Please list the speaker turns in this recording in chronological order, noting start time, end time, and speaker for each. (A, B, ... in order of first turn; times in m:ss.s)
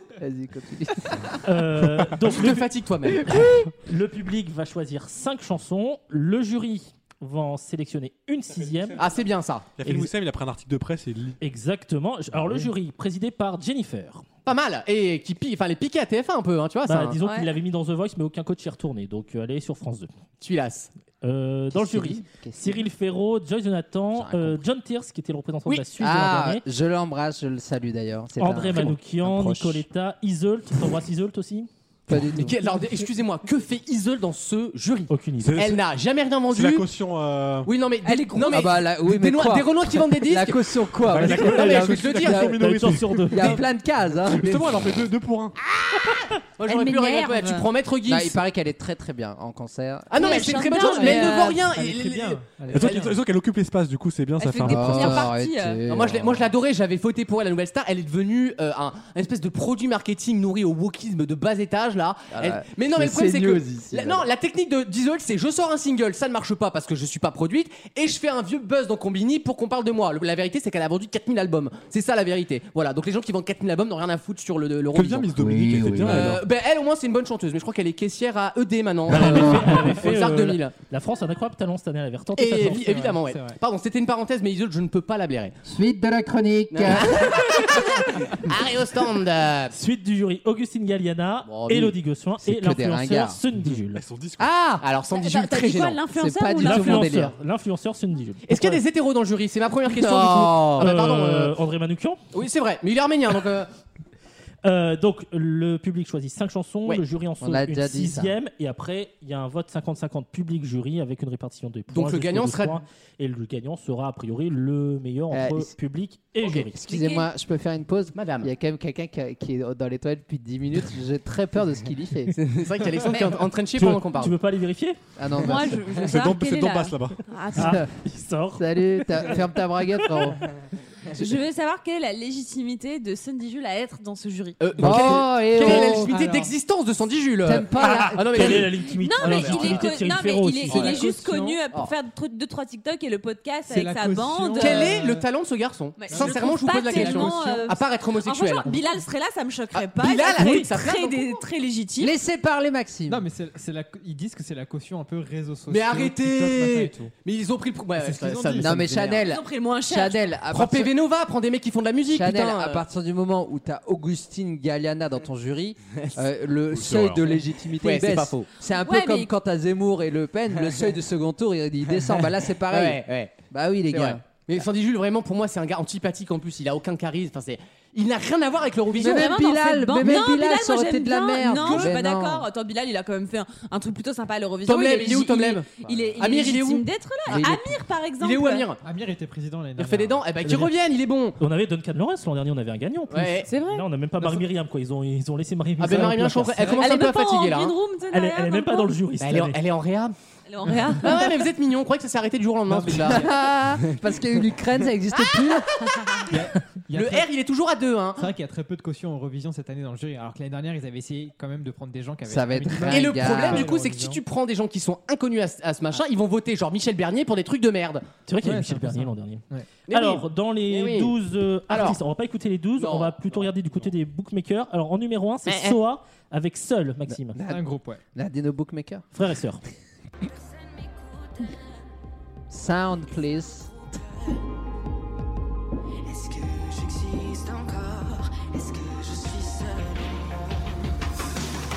0:00.2-0:01.4 A
0:01.4-0:02.7 B
0:02.2-0:03.3 C
0:03.2-0:09.0 B
0:09.0-0:09.7 C
0:09.8-0:11.4 D
0:09.8-0:10.1 B
0:11.4-0:14.2 B
0:14.4-0:17.2 C
0:16.9-0:20.1 B
0:17.2-0:17.5 E
0:20.4-0:20.9 C
0:21.2-0:26.6 B
0:21.7-0:22.8 A
0:24.1-0:24.6 A
0:26.0-0:29.8 A
0:28.4-0:31.7 B
0:32.1-0:32.5 A
0:32.1-0:36.9 C
0:35.1-0:35.6 B
0:35.4-0:35.8 D
0:36.5-0:37.7 D
0:37.6-0:42.5 C
0:38.0-0:38.6 E
0:38.5-0:44.9 A
0:41.1-0:45.5 D
0:42.5-0:43.6 B
0:45.7-0:48.4 C
0:46.6-0:47.7 E
0:48.0-0:50.3 A
0:50.1-0:53.1 C
0:50.1-0:51.7 E
0:50.7-0:53.2 F
0:52.7-0:55.3 D
0:54.4-0:55.8 E
0:54.6-0:56.5 A
0:55.8-1:15.3 C
1:02.3-1:04.2 A
1:14.9-1:16.4 D
1:15.3-1:16.4 A
1:16.0-1:20.7 C
1:19.1-1:22.9 B
1:19.3-1:19.8 A
1:22.4-1:25.6 C
1:22.5-1:23.6 F
1:25.6-1:27.6 A
1:26.7-1:29.7 C
1:29.7-1:34.0 B
1:31.4-1:31.9 C
1:32.4-1:33.4 A
1:33.9-1:34.5 D
1:34.4-1:34.8 A
1:34.8-1:36.0 C
1:35.1-1:37.2 E
1:36.1-1:37.3 A
1:36.6-1:38.8 B
1:38.5-1:41.5 C
1:39.9-1:40.9 A
1:40.8-1:42.2 B
1:42.3-1:43.7 C
1:44.6-1:56.8 B
1:47.4-1:48.3 A
1:51.9-1:52.8 C
1:55.3-1:55.7 A
1:56.7-2:02.4 A
1:56.8-1:57.3 E
1:58.1-1:58.5 C
2:02.3-2:04.3 C
2:03.8-2:05.5 B
2:05.2-2:06.0 A
2:05.4-2:07.8 E
2:06.0-2:07.2 D
2:07.5-2:09.4 B
2:07.6-2:07.9 A
2:08.6-2:10.5 A
2:10.0-2:10.4 B
2:11.1-2:14.6 E
2:14.6-2:19.9 C
2:14.8-2:16.2 A
2:15.6-2:16.0 B
2:17.4-2:18.7 A
2:17.8-2:20.9 B
2:18.9-2:25.0 E
2:20.7-2:21.0 C
2:20.8-2:21.6 F
2:23.7-2:25.3 F
2:24.6-2:28.8 C
2:26.0-2:32.1 E
2:26.1-2:27.3 F
2:29.7-2:31.4 C
2:30.4-2:30.7 B
2:32.0-2:33.2 A
2:33.1-2:37.1 F
2:35.7-2:39.3 C
2:38.0-2:38.9 F
2:38.6-2:40.9 A
2:39.2-2:40.3 E
2:40.5-2:42.8 C
2:42.1-2:54.2 A
2:46.7-2:47.4 D
2:47.8-2:48.5 C
2:48.8-2:49.3 E
2:50.6-2:50.9 C
2:51.9-2:53.3 C
2:53.9-2:59.4 C
2:59.0-3:02.5 A
2:59.0-3:08.8 E
3:00.0-3:00.2 C
3:01.5-3:02.0 C
3:04.6-3:07.5 C
3:05.8-3:06.2 A
3:07.3-3:07.8 A
3:08.2-3:08.8 C
3:08.8-3:10.6 F
3:09.8-3:11.4 C
3:11.4-3:16.9 B
3:13.1-3:13.5 C
3:13.4-3:13.8 E
3:14.2-3:14.4 F
3:15.8-3:17.7 C
3:16.8-3:19.0 E
3:18.1-3:19.6 B
3:19.2-3:20.1 C
3:20.5-3:21.4 E
3:21.0-3:23.3 C
3:22.7-3:23.5 F
3:22.9-3:25.7 A
3:25.1-3:28.3 C
3:26.3-3:27.3 F
3:28.2-3:34.1 F
3:32.2-3:33.6 A
3:32.8-3:38.0 C
3:33.4-3:34.2 B
3:38.3-3:47.4 B
3:38.4-3:39.7 F
3:39.9-3:41.1 C
3:41.7-3:42.0 C
3:42.8-3:43.5 C
3:45.4-3:45.8 E
3:47.1-3:49.0 A
3:47.4-3:48.0 F
3:49.1-3:49.6 B
3:50.2-3:51.9 G
3:52.5-3:53.7 A
3:52.7-3:54.4 G
3:56.0-4:00.8 G